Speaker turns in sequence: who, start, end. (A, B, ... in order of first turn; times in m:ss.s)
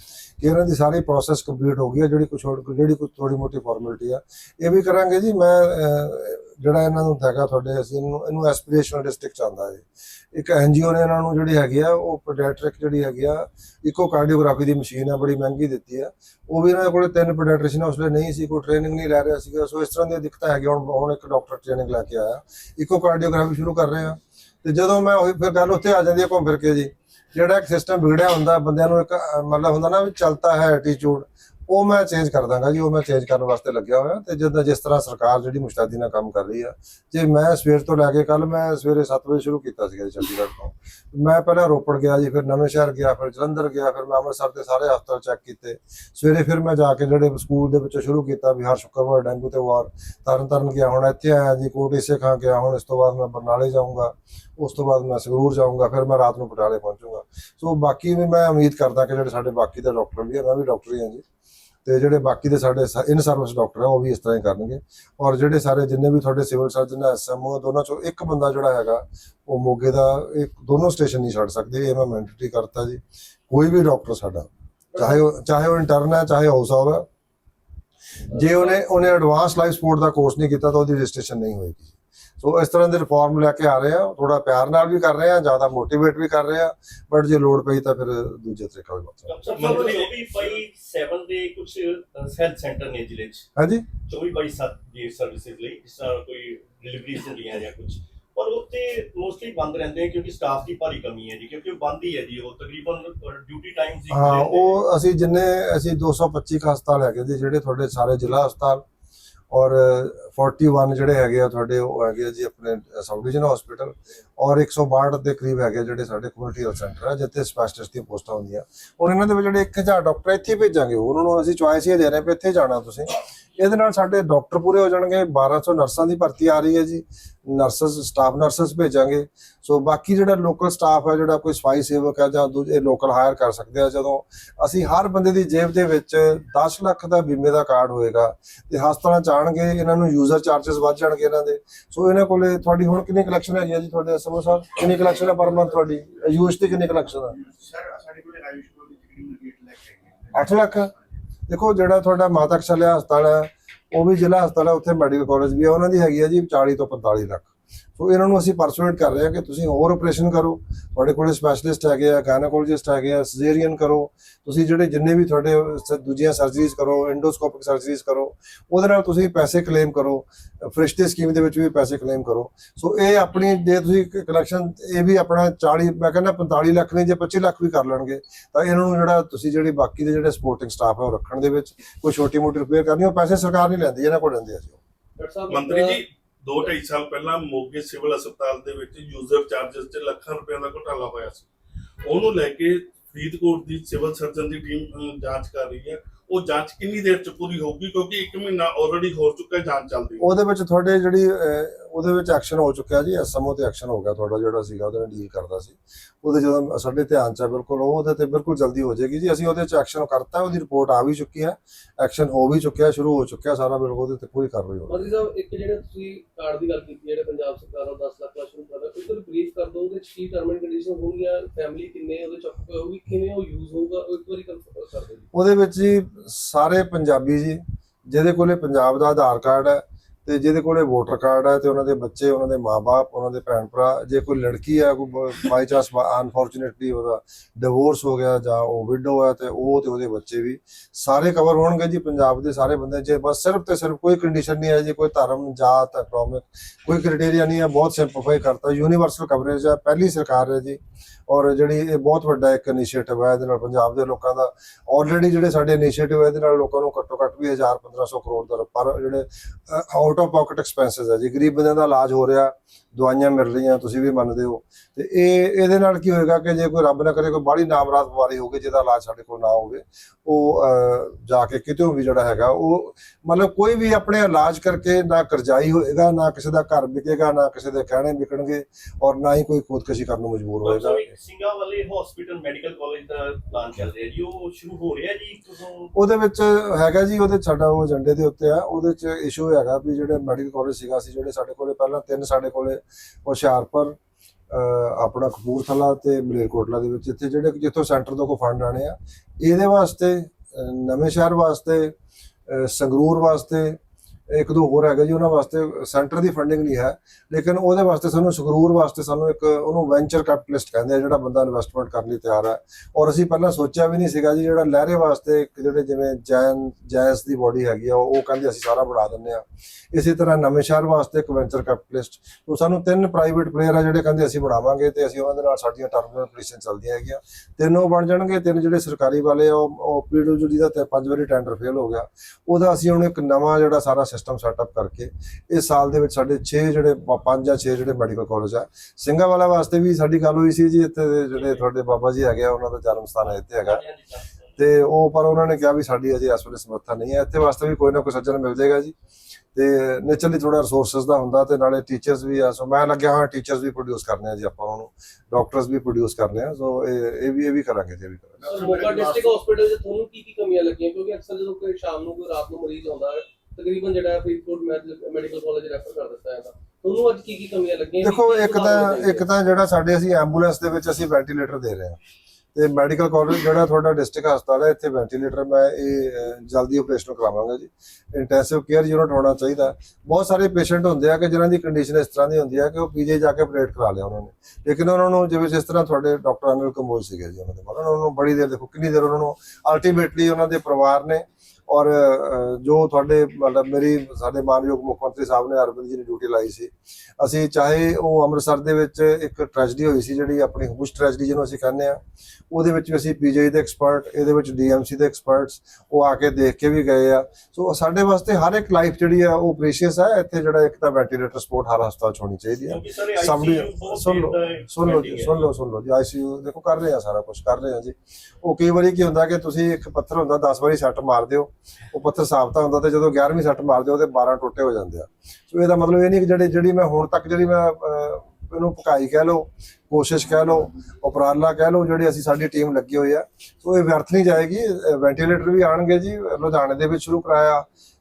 0:00.4-1:01.2 A
1:01.8-1:17.0 A
1:18.3-1:29.3 A
1:18.4-1:18.8 B
1:29.2-1:33.4 C
1:29.5-1:30.2 D
1:33.6-1:33.9 A
1:34.0-1:44.8 C
1:44.1-1:48.8 A
1:49.5-2:27.4 A
2:27.4-2:30.5 E
2:30.3-2:30.9 A
2:31.5-3:04.8 A
3:05.2-3:06.0 B
3:05.5-3:11.5 D
3:12.0-3:20.3 D
3:20.2-3:35.0 A
3:34.9-3:45.2 B
3:45.3-4:41.0 A
4:40.6-4:45.9 C
4:45.9-4:54.0 A
4:54.5-5:01.9 A
5:02.5-5:03.8 A
5:04.3-5:43.8 A
5:41.3-5:41.7 C
5:43.2-5:44.6 C
5:44.6-5:48.9 A
5:49.5-5:58.4 A
5:58.4-5:59.4 E
5:58.5-6:09.3 B
6:08.0-6:12.0 A
6:12.5-6:42.0 A
6:42.5-7:17.6 A
6:52.6-6:55.4 C